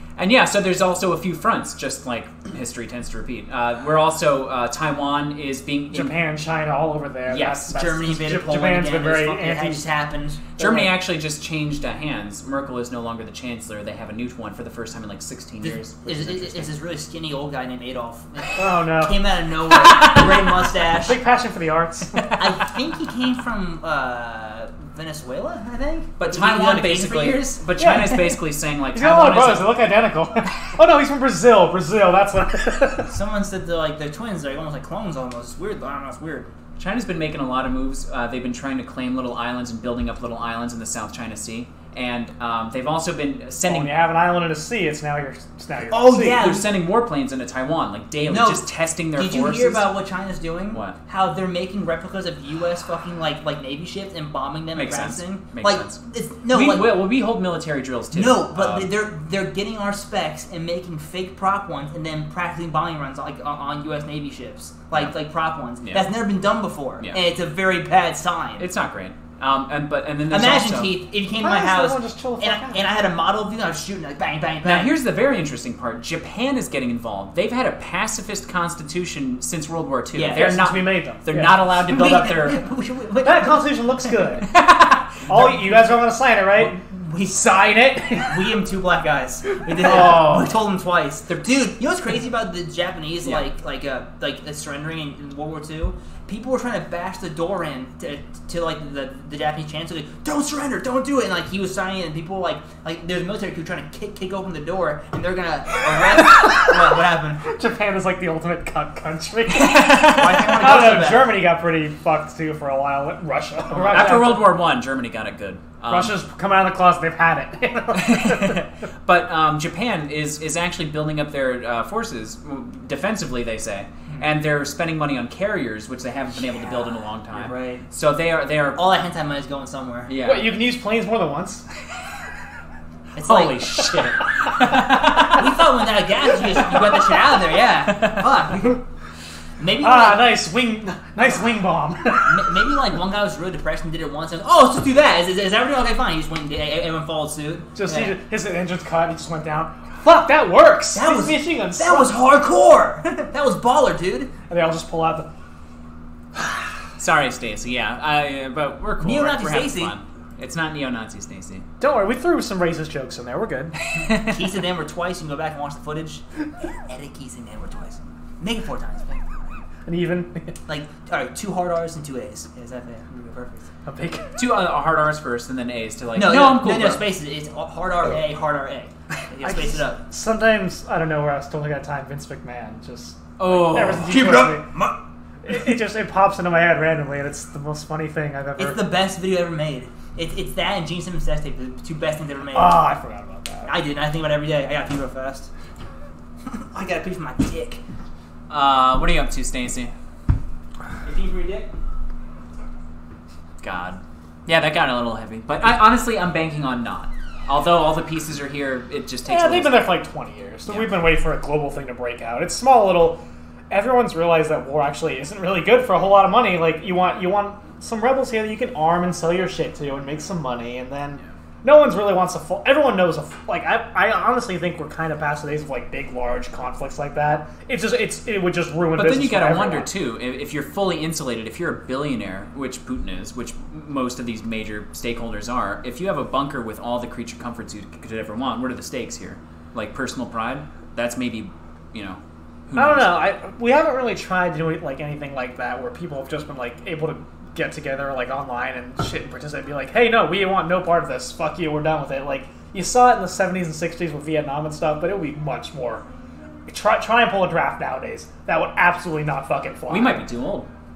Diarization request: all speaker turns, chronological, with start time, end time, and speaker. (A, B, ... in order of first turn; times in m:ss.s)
0:00.2-0:06.2 A
0:05.9-0:09.8 B
0:07.3-0:07.7 A
0:07.7-0:10.4 C
0:10.6-0:10.9 B
0:10.6-0:16.7 A
0:15.6-0:21.2 C
0:18.6-0:19.3 B
0:20.9-0:22.2 B
0:22.3-0:28.1 C
0:26.2-0:29.8 A
0:27.8-0:28.4 B
0:28.9-0:33.1 B
0:33.1-0:36.5 C
0:36.8-0:43.9 A
0:43.6-0:46.4 B
0:45.9-0:46.7 C
0:46.4-0:49.9 A
0:48.3-0:57.0 C
0:54.8-0:58.9 A
0:58.1-1:08.7 C
1:05.8-1:06.1 A
1:08.6-1:10.9 A
1:10.3-1:15.0 C
1:11.3-1:12.8 B
1:14.6-1:22.6 A
1:20.2-1:20.7 C
1:20.3-1:21.6 B
1:21.8-1:23.7 C
1:23.2-1:24.5 B
1:24.5-1:25.2 A
1:25.3-1:26.8 B
1:25.3-1:25.9 C
1:26.5-1:27.5 C
1:27.3-1:28.6 B
1:28.2-1:47.4 C
1:29.8-1:30.6 A
1:46.2-1:46.6 B
1:47.4-1:54.6 B
1:49.5-1:50.6 A
1:50.0-1:51.4 C
1:53.9-1:56.2 A
1:55.9-1:58.6 B
1:57.9-2:08.8 A
2:07.3-2:07.8 C
2:08.8-2:10.1 C
2:10.1-2:10.6 A
2:10.2-2:11.6 B
2:13.2-2:13.6 C
2:13.2-2:15.5 A
2:15.1-2:18.8 C
2:17.9-2:18.3 A
2:19.6-2:20.4 C
2:19.8-2:22.6 B
2:22.2-2:28.2 C
2:27.8-2:32.2 B
2:30.9-2:34.3 C
2:34.5-2:35.3 B
2:37.0-2:41.6 A
2:39.0-2:40.0 C
2:41.8-2:43.8 B
2:44.1-2:49.6 C
2:49.9-2:50.5 B
2:50.7-2:53.7 C
2:53.8-2:54.3 B
2:54.4-2:57.0 A
2:56.2-3:00.0 C
2:59.4-3:04.7 B
3:03.4-3:04.1 A
3:04.0-3:05.0 C
3:05.4-3:08.8 B
3:08.6-3:12.9 C
3:12.5-3:13.8 B
3:13.7-3:15.5 C
3:16.4-3:17.8 C
3:18.5-3:19.9 A
3:21.0-3:21.7 C
3:23.6-3:30.0 A
3:29.3-3:49.9 B
3:30.7-3:31.1 A
3:48.9-4:03.3 A
4:02.8-4:16.0 B
4:16.7-4:20.3 B
4:19.9-4:20.7 A